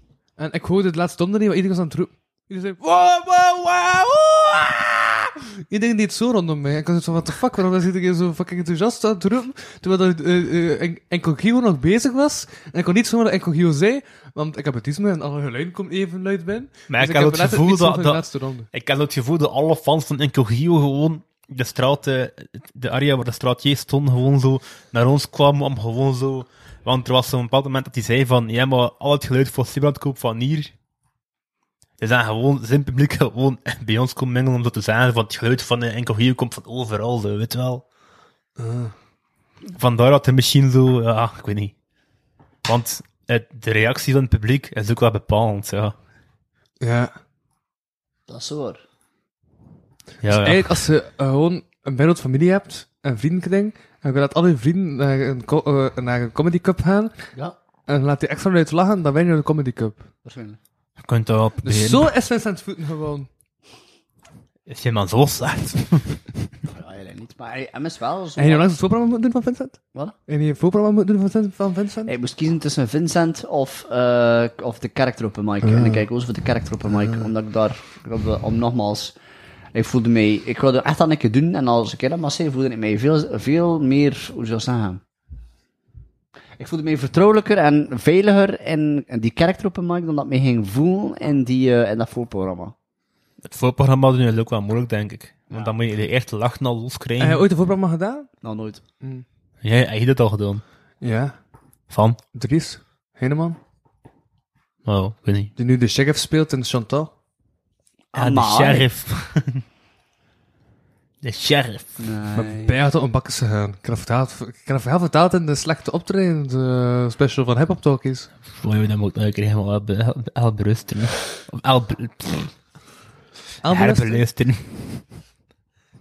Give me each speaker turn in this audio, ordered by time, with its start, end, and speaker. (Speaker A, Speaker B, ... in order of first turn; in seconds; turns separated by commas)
Speaker A: 0.4-18.7, Speaker B: 16.9-30.7, Speaker B: 32.0-37.8, Speaker A: 38.6-38.9, Speaker B: 39.7-41.7, Speaker B: 42.6-45.9, Speaker A: 46.8-47.1, Speaker C: 48.3-48.8, Speaker B: 50.2-50.8, Speaker A: 50.3-57.1, Speaker A: 57.9-60.0, Speaker C: 60.2-60.6, Speaker B: 61.0-62.1, Speaker A: 61.6-63.3, Speaker B: 64.7-66.2, Speaker C: 66.7-68.6, Speaker A: 68.4-72.1, Speaker C: 72.0-79.1, Speaker A: 75.6-76.0, Speaker C: 79.7-85.0, Speaker C: 86.6-92.7, Speaker B: 93.4-97.4, Speaker A: 97.2-98.3, Speaker C: 98.4-98.8, Speaker B: 99.6-100.6, Speaker A: 101.0-101.3, Speaker B: 101.9-102.2, Speaker A: 102.3-103.6, Speaker B: 104.8-105.5, Speaker A: 105.5-107.1, Speaker C: 108.1-108.9, Speaker B: 108.1-109.6, Speaker B: 111.2-112.0, Speaker C: 112.0-112.8, Speaker A: 112.3-118.3, Speaker B: 118.6-122.5, Speaker A: 123.6-124.2, Speaker B: 123.7-125.0